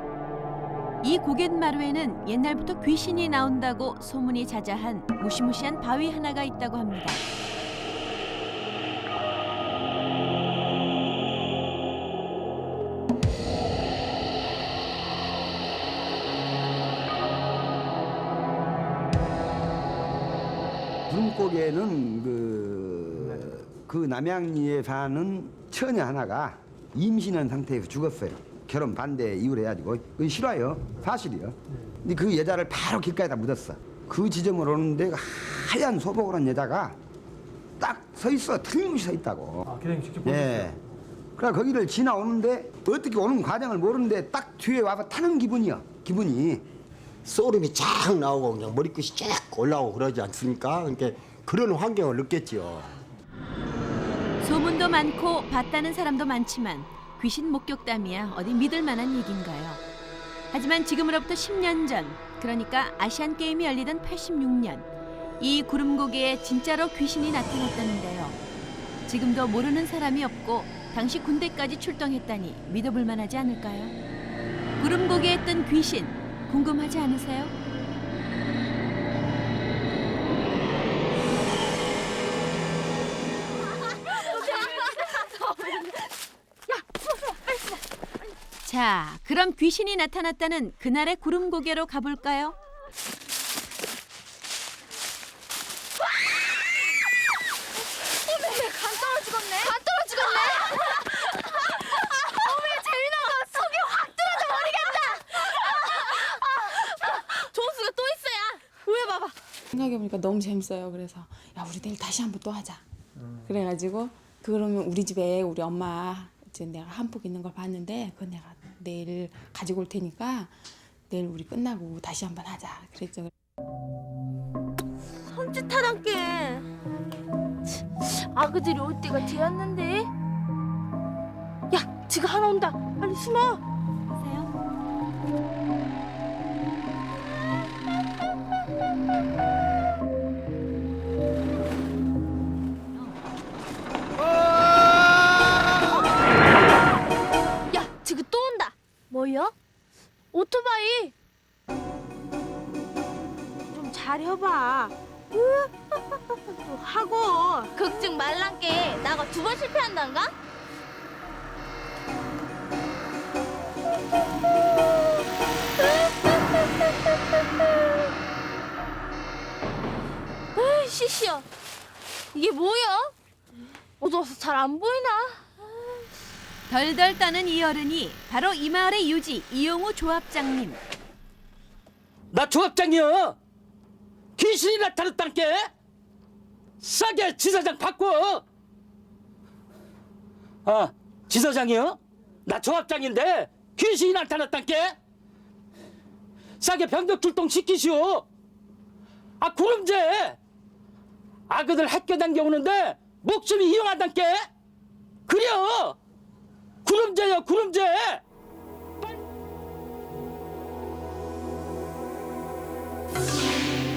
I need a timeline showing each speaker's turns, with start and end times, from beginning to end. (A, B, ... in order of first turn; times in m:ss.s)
0:01.0-0:07.2 A
0:21.1-0:37.0 B
0:37.8-0:39.7 B
0:39.8-0:40.6 C
0:40.2-0:40.8 B
0:41.4-0:46.6 B
0:47.2-0:52.9 D
0:54.4-0:59.8 A
1:00.5-1:04.9 A
1:05.4-1:08.4 A
1:09.1-1:13.9 A
1:14.8-1:17.5 A
1:24.4-1:25.0 E
1:28.6-1:32.6 A
1:38.1-1:49.3 E
1:49.7-1:52.8 F
1:53.4-2:00.5 F
2:01.1-2:03.3 F
2:05.3-2:06.6 E
2:07.8-2:10.1 E
2:11.7-2:13.6 E
2:14.1-2:14.5 A
2:27.7-2:29.5 E
2:30.3-2:31.1 E
2:33.7-2:35.5 E
2:37.0-2:40.3 E
2:45.8-2:48.0 E
2:50.6-2:51.4 E
2:52.3-2:53.1 E
2:54.0-2:55.9 E
2:56.7-3:00.8 A
3:02.4-3:03.3 C
3:04.4-3:05.5 C
3:06.8-3:08.4 C
3:10.7-3:12.0 C
3:12.5-3:14.8 C
3:16.6-3:18.2 C
3:19.4-3:20.4 C
3:21.5-3:24.2 C
3:25.3-3:25.9 C
3:26.8-3:28.2 C